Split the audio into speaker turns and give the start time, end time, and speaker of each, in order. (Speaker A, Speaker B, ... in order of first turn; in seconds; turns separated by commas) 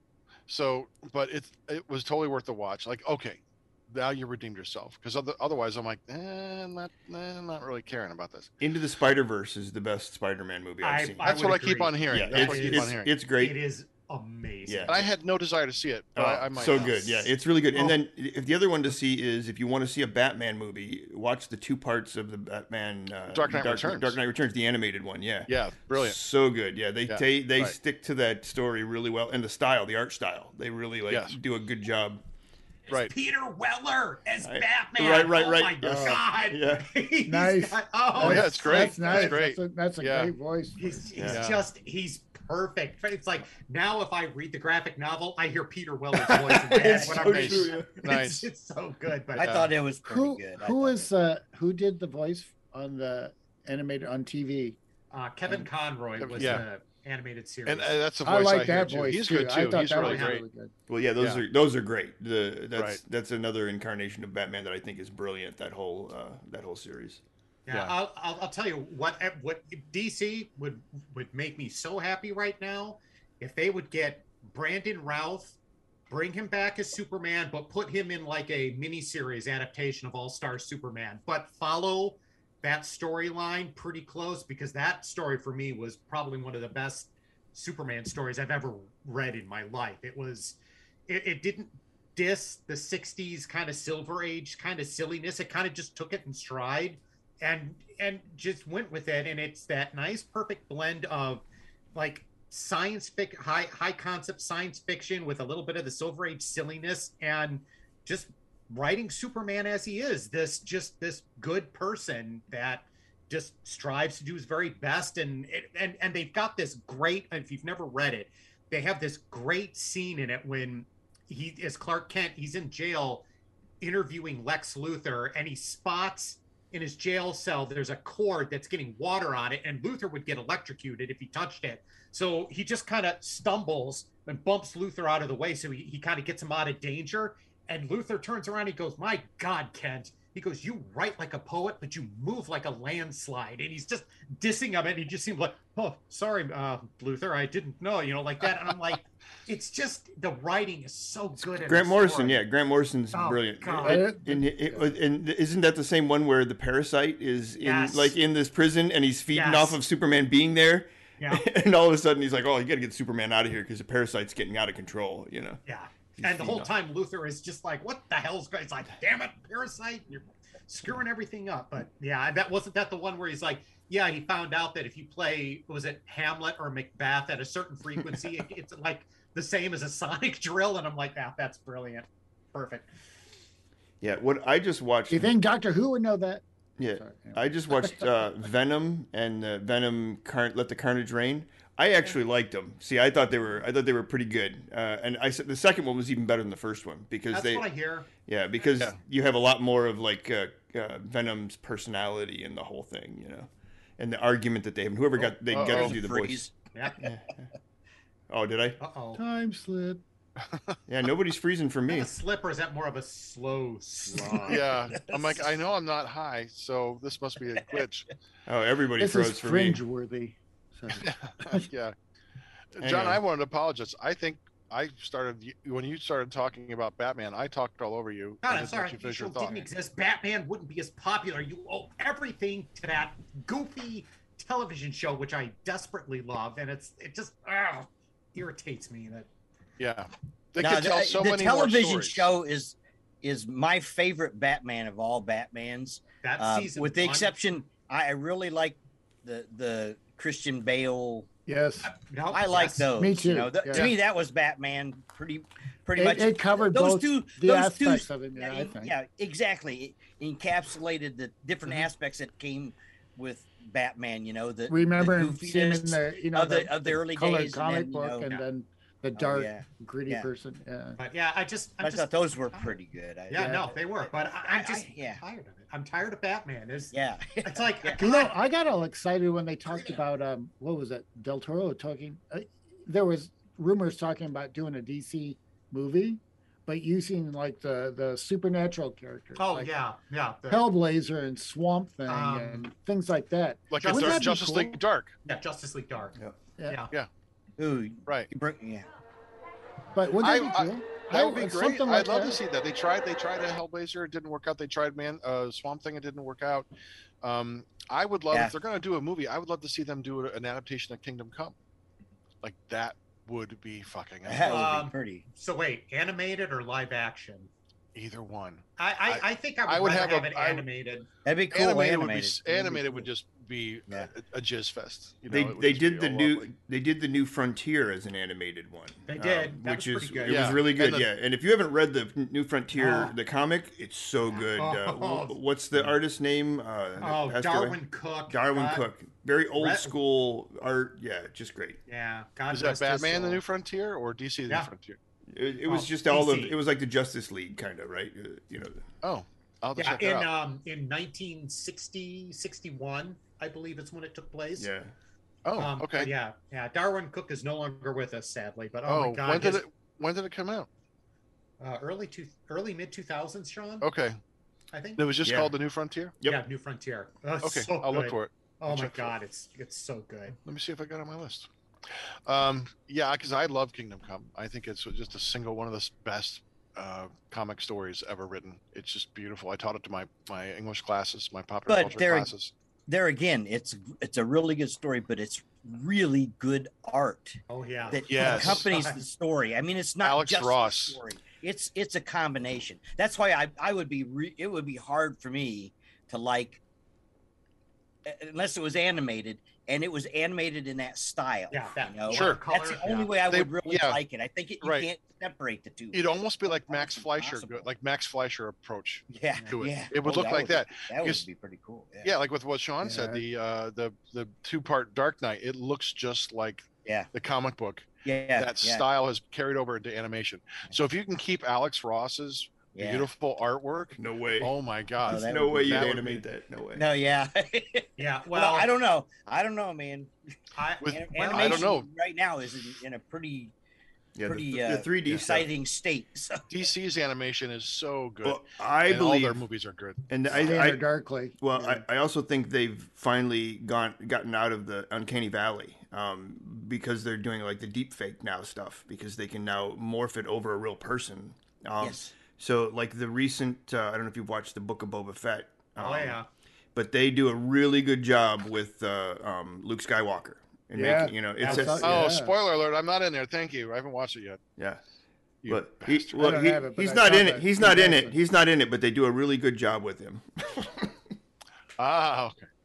Speaker A: 0.5-8.5, Speaker B: 8.6-11.4, Speaker C: 10.8-15.1, Speaker A: 11.2-13.1, Speaker B: 12.1-13.6, Speaker B: 14.7-15.1, Speaker A: 14.9-17.1, Speaker B: 16.2-32.2, Speaker C: 16.6-18.0, Speaker A: 23.3-24.2, Speaker A: 25.5-26.2, Speaker A: 27.1-27.8, Speaker A: 31.1-31.4, Speaker C: 32.9-39.4, Speaker B: 34.4-36.9, Speaker D: 35.8-36.2, Speaker D: 37.3-41.1, Speaker A: 38.2-40.3, Speaker C: 40.8-49.7, Speaker B: 41.1-41.4, Speaker A: 41.3-41.7, Speaker A: 46.2-48.5, Speaker B: 46.3-47.9, Speaker E: 49.4-51.1, Speaker A: 49.4-49.7, Speaker D: 50.0-54.8, Speaker C: 55.1-58.0, Speaker A: 56.2-56.7, Speaker A: 57.7-60.4, Speaker D: 58.2-60.7, Speaker C: 60.0-60.4, Speaker B: 60.9-67.2, Speaker C: 67.7-75.6, Speaker A: 67.7-68.0, Speaker C: 76.1-123.2, Speaker C: 123.8-152.4, Speaker B: 151.4-165.6, Speaker C: 153.1-154.1, Speaker D: 153.8-154.9, Speaker C: 157.6-158.2, Speaker C: 159.3-159.8, Speaker C: 161.2-161.5, Speaker C: 165.7-182.9, Speaker B: 166.2-166.7, Speaker B: 184.0-185.3, Speaker D: 185.1-186.4, Speaker B: 186.8-206.5, Speaker D: 186.9-188.0, Speaker C: 197.3-198.1, Speaker A: 205.5-205.9, Speaker E: 205.6-206.5, Speaker B: 207.0-207.3, Speaker B: 208.3-208.8, Speaker C: 208.8-209.2, Speaker D: 209.2-210.0, Speaker A: 210.5-210.8, Speaker B: 210.9-212.1, Speaker C: 211.9-214.7, Speaker E: 214.1-215.4, Speaker A: 214.5-218.1, Speaker B: 218.5-219.8, Speaker D: 219.0-221.7, Speaker A: 220.9-221.9, Speaker A: 222.8-229.7, Speaker B: 222.8-223.2, Speaker C: 228.4-239.3, Speaker A: 239.8-242.3, Speaker E: 240.6-251.3, Speaker C: 246.2-247.3, Speaker D: 251.5-251.9, Speaker C: 252.1-252.9, Speaker E: 252.3-268.3, Speaker D: 253.0-253.9, Speaker D: 256.0-258.9, Speaker D: 264.7-271.0, Speaker E: 269.2-270.3, Speaker C: 271.0-272.7, Speaker E: 271.8-275.2, Speaker C: 273.3-278.3, Speaker E: 276.9-278.1, Speaker D: 278.0-289.7, Speaker C: 289.4-290.7, Speaker D: 290.5-294.8, Speaker C: 292.1-292.7, Speaker A: 293.7-295.2, Speaker C: 293.8-294.3, Speaker C: 295.3-296.9, Speaker E: 297.6-298.9, Speaker D: 299.9-302.4, Speaker A: 300.2-306.7, Speaker A: 307.2-311.6, Speaker A: 312.4-314.8, Speaker E: 314.2-315.2, Speaker C: 314.4-317.5, Speaker A: 317.9-320.7, Speaker C: 318.8-321.1, Speaker E: 321.2-323.1, Speaker A: 321.5-326.5, Speaker B: 325.3-341.8, Speaker C: 329.1-330.6, Speaker A: 330.3-331.1, Speaker C: 332.8-333.1, Speaker C: 334.3-335.4, Speaker C: 337.0-338.8, Speaker C: 339.6-339.9, Speaker C: 341.9-343.4, Speaker A: 342.5-345.0, Speaker B: 345.3-348.8, Speaker C: 345.7-346.6, Speaker A: 349.0-350.3, Speaker C: 349.8-354.7, Speaker B: 354.6-354.9, Speaker A: 355.4-356.1, Speaker C: 355.6-359.6, Speaker A: 358.9-360.7, Speaker C: 361.6-363.9, Speaker A: 363.8-364.2, Speaker C: 364.7-365.1, Speaker A: 365.0-366.1, Speaker B: 365.2-365.6, Speaker C: 366.2-370.4, Speaker A: 367.4-369.2, Speaker A: 370.4-382.5, Speaker E: 381.7-382.3, Speaker E: 382.9-396.6, Speaker C: 387.5-389.0, Speaker A: 388.1-388.7, Speaker A: 390.0-391.0, Speaker E: 398.1-407.7, Speaker C: 401.5-403.1, Speaker A: 402.1-402.4, Speaker A: 403.2-404.0, Speaker A: 404.6-404.9, Speaker A: 405.9-411.3, Speaker E: 409.1-412.1, Speaker A: 412.0-426.2, Speaker D: 412.8-413.2, Speaker E: 418.1-418.9, Speaker E: 422.7-423.1, Speaker B: 424.0-424.5, Speaker E: 425.1-426.0, Speaker B: 425.1-426.9, Speaker E: 426.8-430.1, Speaker C: 428.0-428.7, Speaker C: 430.6-431.7, Speaker A: 430.8-431.9, Speaker E: 430.9-433.5, Speaker B: 434.2-435.5, Speaker E: 434.2-436.5, Speaker A: 436.5-440.5, Speaker B: 438.2-439.4, Speaker B: 440.1-440.9, Speaker D: 440.4-441.8, Speaker B: 441.4-456.2, Speaker E: 451.8-452.1, Speaker C: 455.8-456.3, Speaker B: 456.8-462.0, Speaker D: 460.8-462.3, Speaker C: 461.4-461.8, Speaker A: 461.8-464.4, Speaker A: 465.4-466.3, Speaker B: 465.5-470.9, Speaker D: 466.2-468.2, Speaker A: 471.8-472.5